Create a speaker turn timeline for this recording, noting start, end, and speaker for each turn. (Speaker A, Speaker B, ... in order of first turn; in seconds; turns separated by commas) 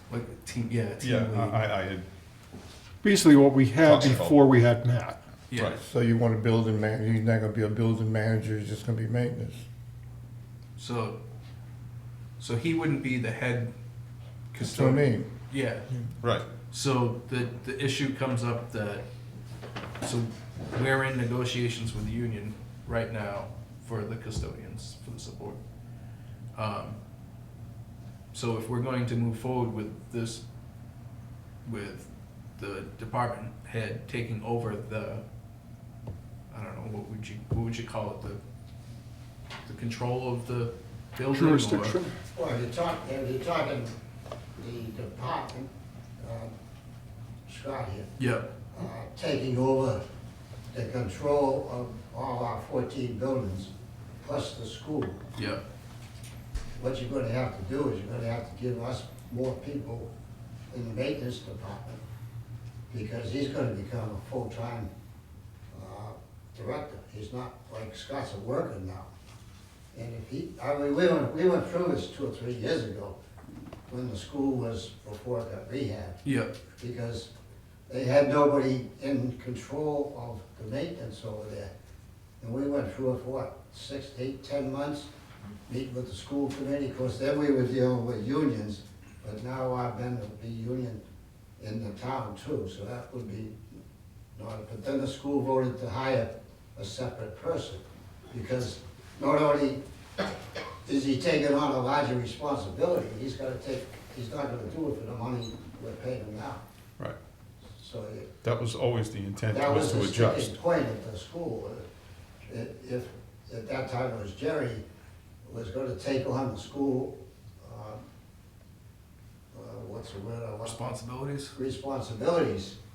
Speaker A: 0.1-1.6, Speaker B: 1.0-2.0, Speaker C: 3.0-5.2, Speaker B: 3.8-4.4, Speaker A: 5.5-5.8, Speaker B: 5.5-5.8, Speaker D: 5.8-9.6, Speaker A: 10.8-11.2, Speaker A: 12.4-13.7, Speaker A: 14.5-15.9, Speaker D: 14.6-15.3, Speaker B: 16.2-16.5, Speaker A: 16.7-19.1, Speaker A: 20.0-25.6, Speaker A: 26.5-27.0, Speaker A: 28.3-30.4, Speaker A: 31.6-35.2, Speaker A: 36.5-38.4, Speaker A: 39.7-42.0, Speaker C: 41.3-42.1, Speaker E: 42.3-44.0, Speaker E: 44.6-46.5, Speaker E: 47.5-48.1, Speaker A: 48.2-48.5, Speaker E: 48.7-50.0, Speaker E: 50.7-55.2, Speaker A: 55.4-55.6, Speaker E: 56.8-60.1, Speaker E: 60.7-62.0, Speaker E: 62.9-64.9, Speaker E: 65.7-69.1, Speaker E: 69.9-73.2, Speaker E: 73.9-76.2, Speaker A: 76.2-76.5, Speaker E: 76.8-77.3, Speaker E: 77.9-81.7, Speaker E: 82.4-85.1, Speaker E: 85.7-91.0, Speaker E: 91.6-93.6, Speaker E: 94.4-99.8, Speaker E: 100.8-106.6, Speaker E: 107.8-108.3, Speaker B: 108.4-110.6, Speaker E: 109.5-111.8, Speaker E: 112.5-114.8, Speaker E: 115.5-118.0, Speaker E: 119.5-120.8, Speaker A: 120.6-121.5, Speaker E: 121.5-122.8